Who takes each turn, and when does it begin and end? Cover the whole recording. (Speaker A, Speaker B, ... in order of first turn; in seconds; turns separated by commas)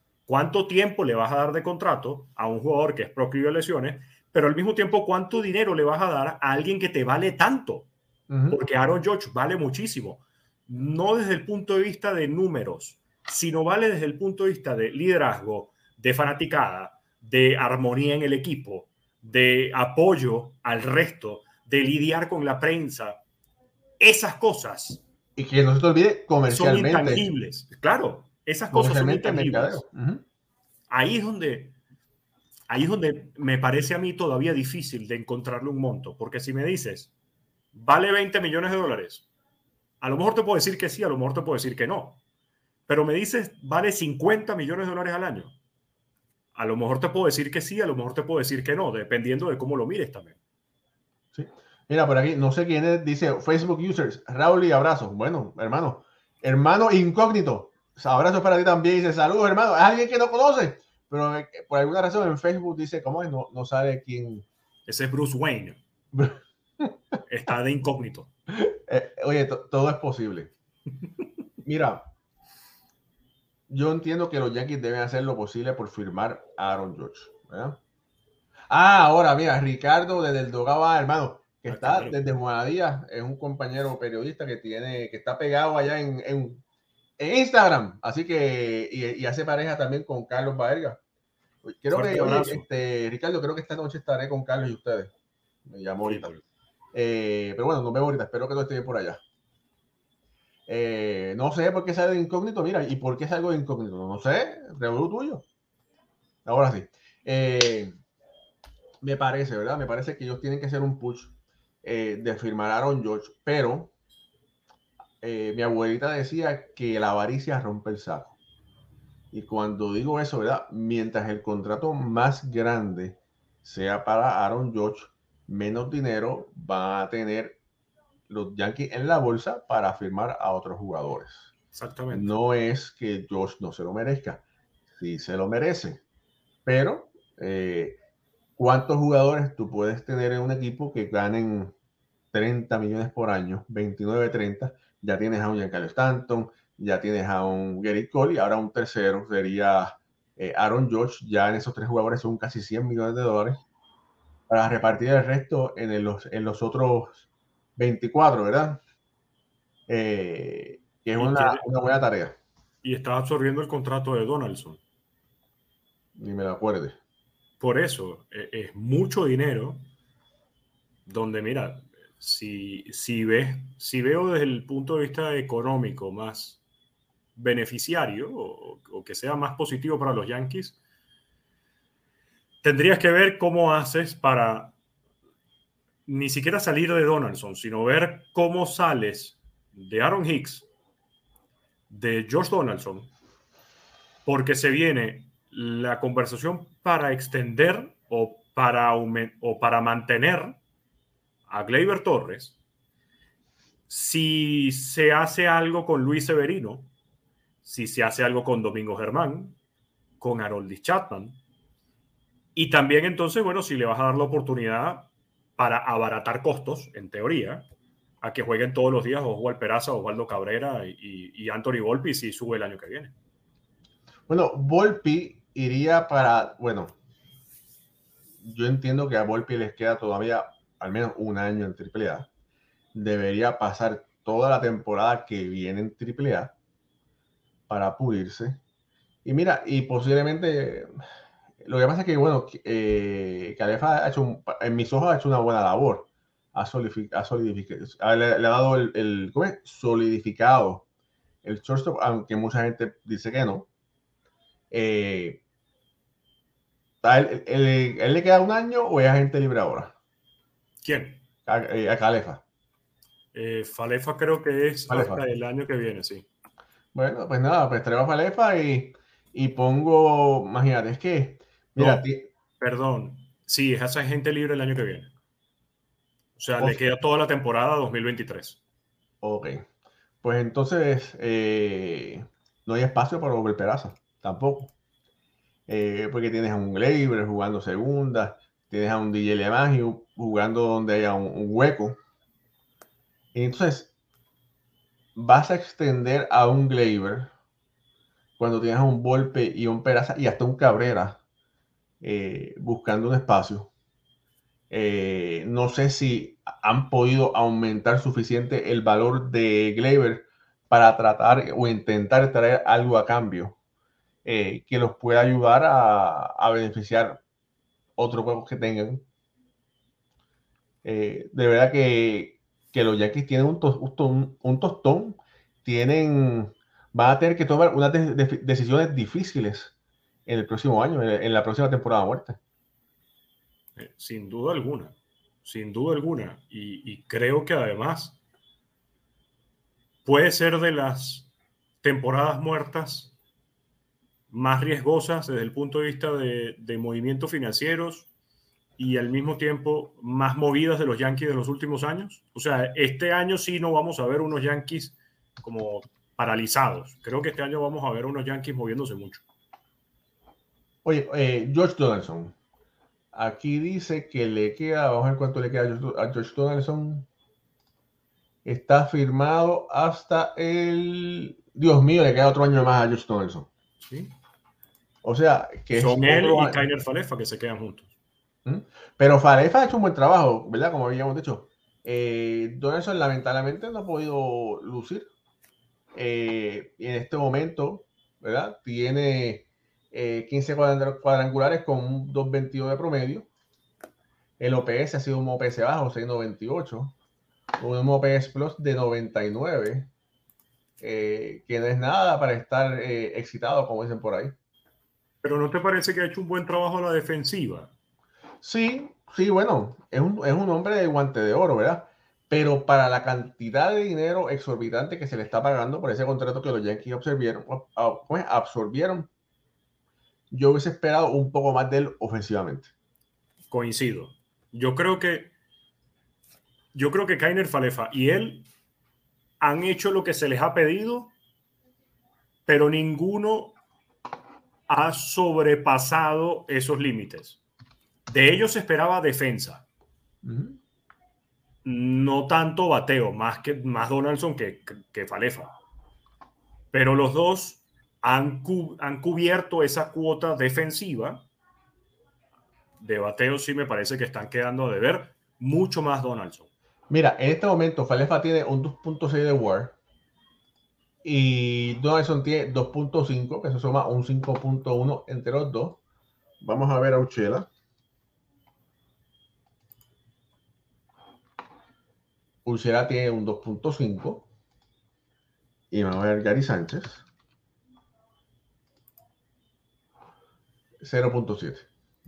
Speaker A: 0.3-7.9, Speaker B: 8.3-8.6, Speaker A: 8.5-23.2, Speaker A: 24.0-25.0, Speaker B: 25.4-27.2, Speaker A: 26.5-29.8, Speaker B: 28.7-30.2, Speaker A: 30.9-31.7, Speaker A: 32.7-37.1, Speaker A: 37.7-39.3, Speaker A: 40.0-42.2, Speaker A: 42.9-45.5, Speaker A: 46.5-50.4, Speaker B: 51.3-64.5, Speaker A: 64.9-65.8, Speaker B: 66.1-66.9, Speaker A: 67.3-68.3, Speaker B: 68.5-70.5, Speaker B: 71.6-72.1, Speaker B: 73.7-77.8, Speaker B: 78.7-86.6, Speaker A: 81.7-82.2, Speaker B: 87.2-91.0, Speaker B: 91.6-95.1, Speaker A: 91.9-92.7, Speaker B: 95.7-96.3, Speaker A: 96.0-96.4, Speaker B: 96.9-99.2, Speaker B: 100.7-105.4, Speaker B: 106.4-107.9, Speaker B: 109.0-113.9, Speaker B: 115.2-118.4, Speaker B: 119.3-127.6, Speaker B: 128.3-131.5, Speaker A: 131.7-132.3, Speaker B: 132.1-136.0, Speaker B: 136.7-138.0, Speaker B: 138.6-141.7, Speaker B: 142.3-153.6, Speaker B: 154.5-158.8, Speaker B: 159.9-162.4, Speaker A: 161.2-161.7, Speaker A: 162.8-164.8, Speaker B: 166.2-167.0, Speaker A: 167.6-169.9, Speaker A: 171.1-176.6, Speaker A: 177.3-180.8, Speaker A: 182.6-184.7, Speaker A: 186.1-190.7, Speaker A: 191.9-193.1, Speaker A: 194.2-200.6, Speaker A: 201.5-202.6, Speaker A: 203.9-206.9, Speaker A: 207.6-209.6, Speaker A: 210.2-211.4, Speaker A: 212.5-217.7, Speaker A: 218.2-223.1, Speaker B: 224.3-226.9, Speaker B: 228.4-232.3, Speaker B: 232.9-236.5, Speaker B: 237.7-238.6, Speaker B: 239.2-240.9, Speaker B: 241.6-250.8, Speaker B: 251.4-253.7, Speaker B: 254.7-255.4, Speaker B: 257.0-259.9, Speaker A: 260.8-261.2, Speaker B: 261.4-262.4, Speaker A: 263.3-266.3, Speaker B: 264.9-265.2, Speaker B: 266.9-272.3, Speaker A: 271.8-272.0, Speaker A: 272.6-275.1, Speaker A: 276.4-278.6, Speaker B: 276.6-276.9, Speaker B: 279.2-279.6, Speaker B: 280.2-284.7, Speaker B: 285.7-292.0, Speaker B: 293.3-293.9, Speaker B: 295.1-297.3, Speaker B: 298.4-301.2, Speaker B: 302.0-303.7, Speaker B: 304.7-313.6, Speaker B: 314.2-317.2, Speaker B: 318.0-319.0, Speaker B: 320.8-329.7, Speaker B: 330.2-332.4, Speaker A: 333.8-338.2, Speaker A: 340.0-341.3, Speaker A: 341.8-343.1, Speaker A: 344.3-348.1, Speaker A: 348.8-359.2, Speaker B: 360.8-362.3, Speaker B: 363.1-367.1, Speaker B: 368.4-373.5, Speaker A: 373.8-374.1, Speaker B: 375.0-376.6, Speaker A: 375.8-377.9, Speaker B: 378.4-385.1, Speaker B: 385.9-393.3, Speaker B: 394.4-396.9, Speaker B: 397.6-399.9, Speaker B: 400.8-404.3, Speaker A: 405.2-407.7, Speaker B: 408.4-419.1, Speaker B: 420.3-422.7, Speaker A: 423.5-425.3, Speaker A: 426.7-428.5, Speaker A: 429.4-431.1, Speaker A: 432.4-433.6, Speaker A: 434.7-437.4, Speaker A: 438.1-439.6, Speaker B: 440.2-440.6, Speaker A: 441.6-445.5, Speaker A: 446.7-451.2, Speaker A: 452.8-456.5, Speaker B: 456.9-459.8, Speaker B: 461.0-465.8, Speaker B: 466.4-467.5, Speaker B: 472.4-474.3, Speaker B: 475.7-477.0, Speaker B: 480.8-481.7